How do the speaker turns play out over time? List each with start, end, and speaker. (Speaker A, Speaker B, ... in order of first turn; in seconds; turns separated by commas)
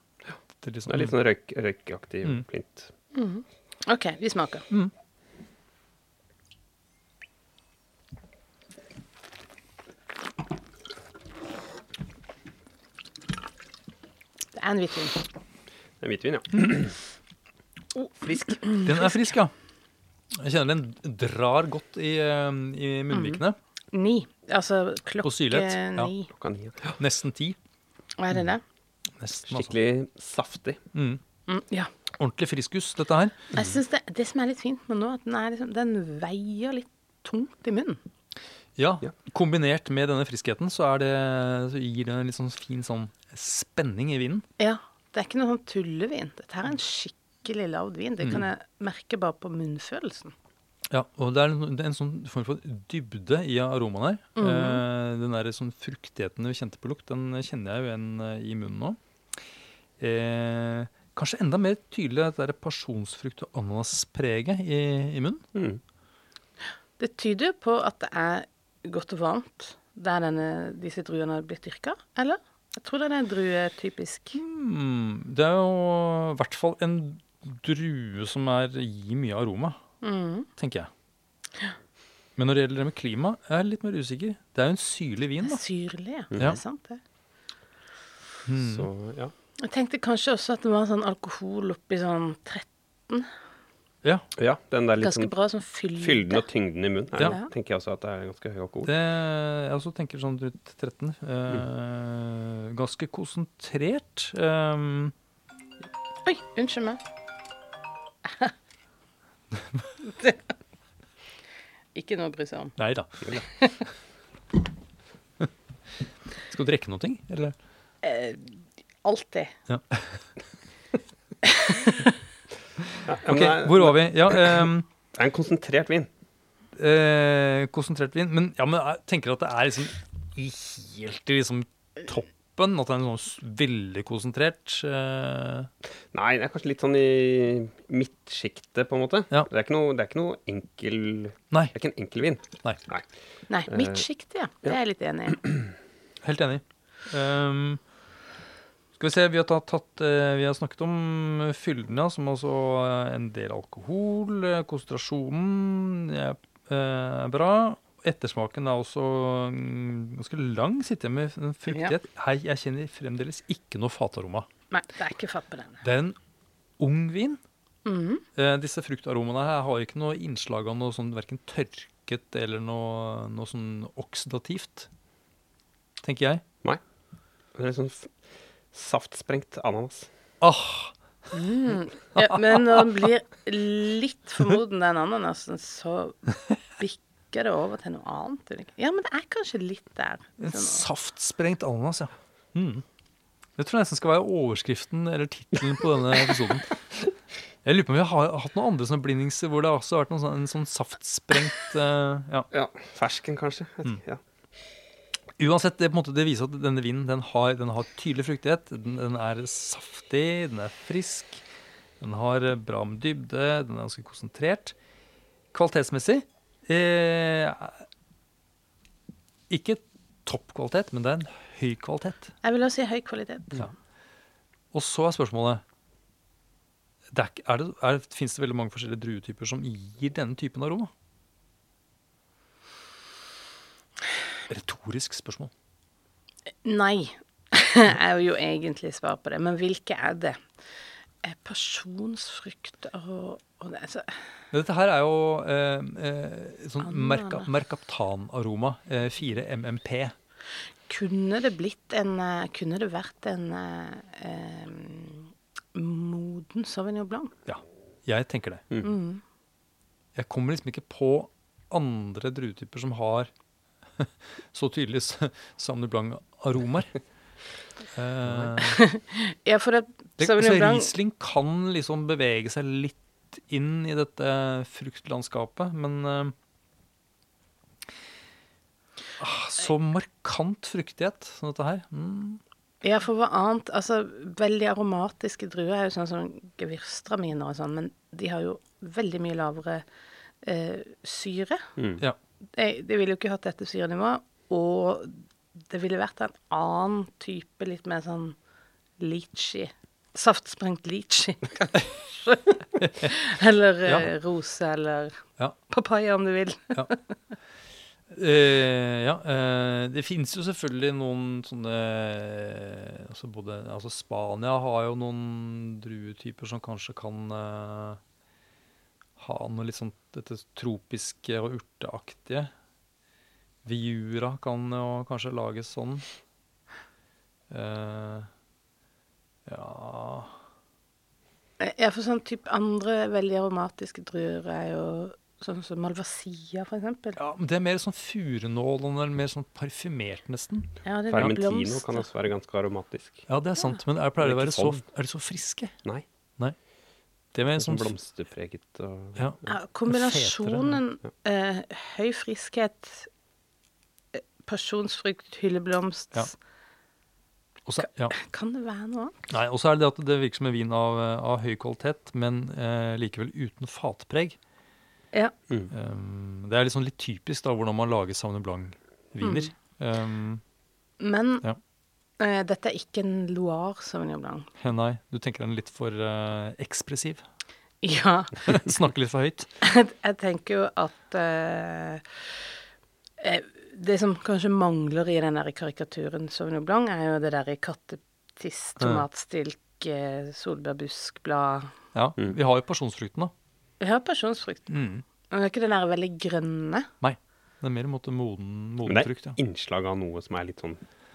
Speaker A: 0.6-1.2, Speaker B: 0.9-2.9, Speaker C: 3.1-4.6, Speaker C: 14.5-15.2, Speaker B: 16.0-17.0, Speaker C: 17.9-18.9, Speaker B: 18.2-18.6, Speaker A: 18.8-19.5, Speaker A: 20.3-23.6, Speaker C: 23.1-26.3, Speaker A: 25.2-26.1, Speaker B: 26.4-26.9, Speaker A: 26.9-27.6, Speaker C: 28.2-28.6, Speaker A: 29.2-29.7, Speaker B: 29.5-30.8, Speaker A: 30.9-31.2, Speaker C: 31.5-31.9, Speaker A: 32.2-33.5, Speaker C: 33.5-38.0, Speaker A: 38.8-44.4, Speaker C: 44.6-50.3, Speaker A: 50.9-59.0, Speaker C: 54.4-54.8, Speaker A: 60.0-65.4, Speaker B: 65.5-65.8, Speaker C: 67.0-74.4, Speaker A: 74.3-79.8, Speaker C: 80.0-80.5, Speaker A: 80.6-80.9, Speaker A: 82.4-85.6, Speaker C: 85.4-87.0, Speaker A: 88.5-88.9, Speaker B: 88.6-89.3, Speaker C: 89.6-93.3, Speaker B: 94.4-95.3, Speaker C: 95.0-96.4, Speaker B: 96.0-98.9, Speaker C: 97.2-97.4, Speaker A: 98.8-105.1, Speaker C: 106.2-107.0, Speaker C: 108.2-108.5, Speaker C: 110.0-110.4, Speaker C: 111.9-112.8, Speaker A: 112.8-113.6, Speaker A: 116.5-117.5, Speaker C: 118.0-119.5, Speaker A: 119.7-120.0, Speaker C: 121.4-122.1, Speaker B: 123.0-126.1, Speaker A: 123.3-124.8, Speaker A: 126.7-135.7, Speaker B: 136.1-143.1, Speaker A: 141.5-141.8, Speaker C: 143.5-145.4, Speaker B: 143.7-144.1, Speaker A: 146.2-147.8, Speaker A: 149.0-164.5, Speaker C: 161.7-162.0, Speaker C: 164.7-165.8, Speaker A: 165.8-166.2, Speaker A: 166.8-167.4, Speaker C: 167.8-168.2, Speaker A: 168.3-174.9, Speaker A: 176.0-176.4, Speaker B: 177.5-178.1, Speaker B: 178.7-180.1, Speaker A: 180.4-180.9, Speaker C: 181.3-190.8, Speaker A: 190.4-192.8, Speaker A: 193.6-196.8, Speaker A: 197.6-202.5, Speaker B: 202.5-204.2, Speaker A: 205.4-211.4, Speaker A: 212.0-214.7, Speaker A: 215.5-217.8, Speaker A: 219.5-222.3, Speaker C: 222.4-223.7, Speaker A: 224.7-225.6, Speaker A: 227.1-230.9, Speaker A: 234.5-235.5, Speaker C: 236.6-240.4, Speaker C: 241.2-244.2, Speaker A: 244.5-250.1, Speaker C: 246.8-247.5, Speaker C: 250.9-257.3, Speaker A: 257.5-258.7, Speaker C: 258.8-259.2, Speaker A: 260.1-263.3, Speaker A: 264.0-267.0, Speaker A: 267.9-268.8, Speaker C: 268.6-270.9, Speaker A: 270.2-276.3, Speaker A: 279.2-282.4, Speaker C: 282.8-289.8, Speaker C: 290.4-291.6, Speaker B: 291.8-292.0, Speaker C: 292.5-298.4, Speaker C: 299.0-307.0, Speaker A: 308.1-318.0, Speaker A: 319.2-322.5, Speaker A: 323.6-326.0, Speaker A: 327.5-328.3, Speaker A: 329.5-330.3, Speaker C: 331.6-337.2, Speaker A: 337.2-341.3, Speaker C: 340.8-342.0, Speaker B: 341.1-343.2, Speaker A: 343.3-345.7, Speaker B: 344.2-344.8, Speaker A: 347.3-347.9, Speaker B: 347.6-349.4, Speaker A: 349.2-350.8, Speaker C: 349.4-353.1, Speaker C: 354.1-356.3, Speaker A: 357.6-358.2, Speaker C: 357.8-359.1, Speaker A: 359.3-364.4, Speaker A: 365.7-370.4, Speaker C: 369.2-369.5, Speaker C: 371.0-371.4, Speaker C: 372.2-374.5, Speaker A: 374.6-377.2, Speaker C: 377.8-378.6, Speaker A: 378.4-379.5, Speaker C: 379.6-382.2, Speaker C: 383.2-391.7, Speaker A: 391.9-393.3, Speaker C: 393.8-394.8, Speaker A: 394.7-395.0, Speaker C: 395.3-396.9, Speaker A: 397.0-399.4, Speaker B: 398.9-400.8